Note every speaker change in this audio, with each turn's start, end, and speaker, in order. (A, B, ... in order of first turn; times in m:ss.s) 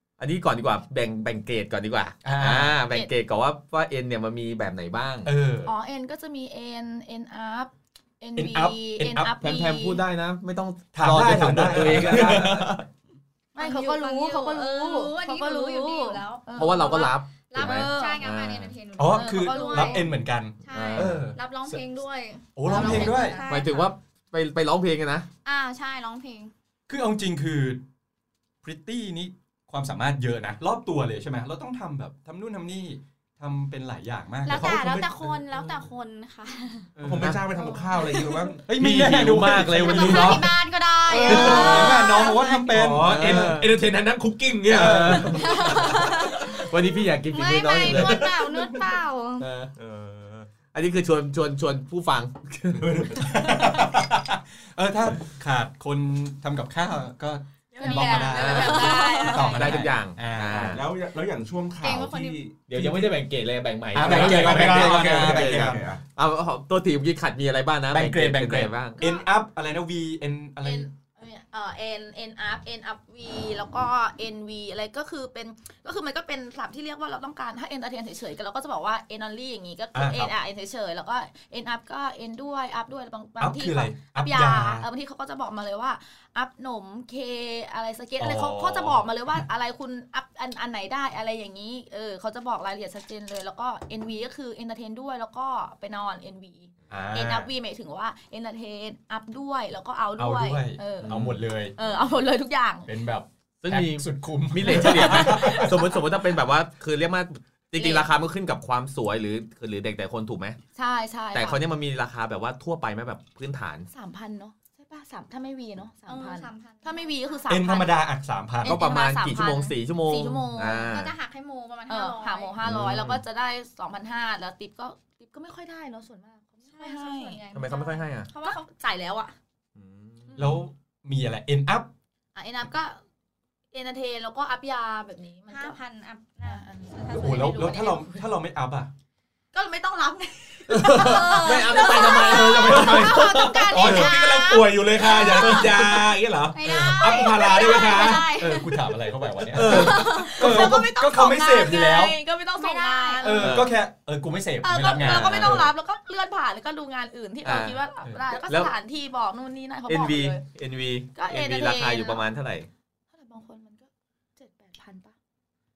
0:00.2-0:05.3 A
0:02.2-0:02.8 B
0:05.2-0:05.7 B
0:05.7-0:10.0 C
0:08.4-0:09.4 B
0:09.4-0:12.8 A
0:11.0-0:12.8 B
0:13.6-0:20.1 D
0:13.6-0:18.2 C
0:16.5-0:18.8 A
0:19.0-0:21.8 B
0:19.1-0:20.1 C
0:20.6-0:24.0 D
0:20.7-0:21.3 A
0:22.6-0:23.4 B
0:22.7-0:23.5 C
0:22.9-0:25.3 A
0:25.4-0:26.5 D
0:26.9-0:27.8 B
0:28.6-0:34.9 B
0:34.4-0:36.9 D
0:34.5-0:35.2 E
0:37.0-0:37.4 B
0:37.0-0:38.7 E
0:37.7-0:38.5 D
0:38.6-0:40.5 B
0:38.7-0:40.5 A
0:39.8-0:42.7 D
0:41.2-0:43.6 B
0:41.2-0:42.0 A
0:41.3-0:41.8 E
0:42.7-0:45.4 E
0:43.0-0:43.7 A
0:44.7-0:45.5 B
0:44.8-0:48.4 A
0:45.3-0:46.7 D
0:47.3-0:49.5 D
0:49.4-0:49.7 A
0:49.8-0:50.5 E
0:50.7-0:53.2 A
0:52.7-0:53.8 E
0:53.2-1:00.8 B
0:57.7-0:59.8 C
0:57.8-0:59.5 D
0:58.4-0:58.7 A
0:59.2-1:00.8 A
1:00.5-1:02.6 E
1:01.8-1:02.4 D
1:02.7-1:09.0 A
1:02.7-1:03.1 B
1:03.9-1:05.8 B
1:04.0-1:06.0 E
1:07.9-1:10.9 B
1:09.0-1:09.3 C
1:10.6-1:42.9 C
1:19.9-1:20.3 B
1:23.4-1:24.9 B
1:28.2-1:29.4 B
1:36.9-1:37.5 B
1:40.2-1:41.8 B
1:41.0-1:41.4 A
1:42.9-1:45.8 B
1:43.6-1:50.6 A
1:44.7-1:46.2 C
1:47.8-1:48.1 C
1:50.8-1:51.6 C
1:51.3-1:53.9 A
1:53.9-1:58.0 C
1:56.1-1:57.5 D
1:57.5-1:58.8 B
1:58.6-2:00.9 C
1:58.6-2:01.2 A
2:00.8-2:02.6 D
2:01.9-2:07.4 C
2:02.6-2:03.2 B
2:06.7-2:08.6 D
2:07.5-2:08.3 A
2:08.4-2:09.4 C
2:09.8-2:10.3 A
2:10.3-2:10.6 C
2:10.4-2:11.9 B
2:12.4-2:13.0 C
2:13.7-2:15.8 C
2:15.5-2:16.6 D
2:16.4-2:18.3 C
2:17.1-2:18.9 B
2:17.3-2:17.7 D
2:19.5-2:24.0 C
2:20.7-2:23.8 A
2:20.8-2:25.9 D
2:22.2-2:28.3 E
2:23.8-2:24.1 B
2:25.1-2:25.6 C
2:26.5-2:29.1 D
2:26.6-2:27.1 B
2:27.3-2:28.3 C
2:28.2-2:32.2 B
2:29.5-2:30.7 A
2:29.6-2:33.7 C
2:29.6-2:30.4 D
2:32.6-2:33.5 D
2:33.2-2:35.7 B
2:33.4-2:33.8 A
2:34.6-2:40.4 C
2:34.9-2:35.7 A
2:37.4-2:37.8 A
2:38.3-2:38.7 A
2:39.9-2:42.7 A
2:41.2-2:42.3 C
2:43.1-2:45.2 C